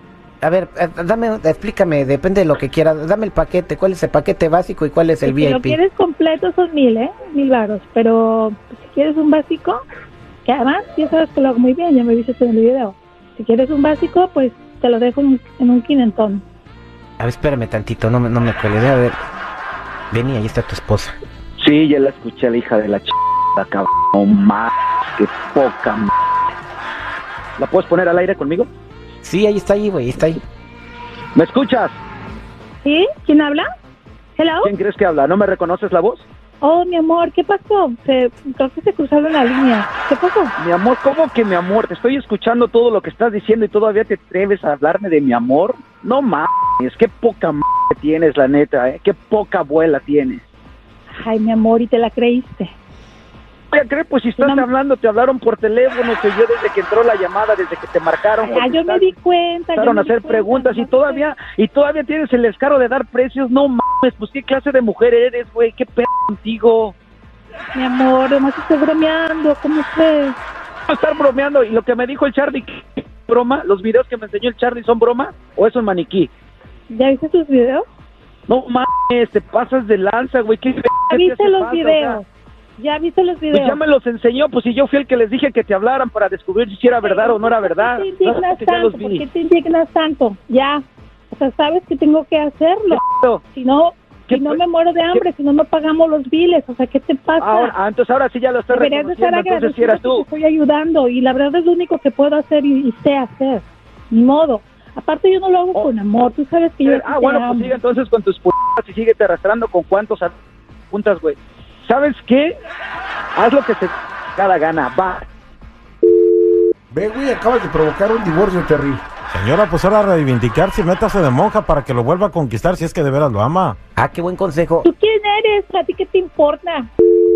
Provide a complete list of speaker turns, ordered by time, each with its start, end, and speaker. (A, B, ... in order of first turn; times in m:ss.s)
0:00.4-0:05.8 A
0:05.3-0:09.8 B
0:10.4-0:16.4 B
0:17.2-0:19.2 A
0:20.1-0:21.2 A
0:21.6-0:26.1 C
0:27.6-0:28.7 C
0:29.2-0:30.4 A
0:31.4-0:32.0 C
0:32.8-0:33.7 B
0:34.4-0:34.7 B
0:34.6-0:36.3 C
0:36.6-0:40.5 B
0:40.6-0:50.4 C
0:51.2-0:52.7 B
0:53.7-0:59.1 C
0:54.4-0:54.7 B
0:58.4-1:01.2 B
0:59.8-1:07.0 C
1:07.7-1:10.4 B
1:10.9-1:16.3 C
1:16.9-1:17.8 B
1:18.5-1:22.2 C
1:21.1-1:22.3 B
1:22.8-1:23.8 B
1:23.5-1:29.2 C
1:27.0-1:33.0 B
1:32.9-1:33.4 C
1:33.5-1:37.7 B
1:34.3-1:34.6 C
1:37.4-1:40.2 C
1:38.7-1:47.8 B
1:46.8-1:50.4 C
1:50.9-1:52.6 C
1:53.4-1:55.3 C
1:56.9-1:59.0 D
1:59.3-2:03.8 E
2:04.0-2:04.9 A
2:04.8-2:06.9 B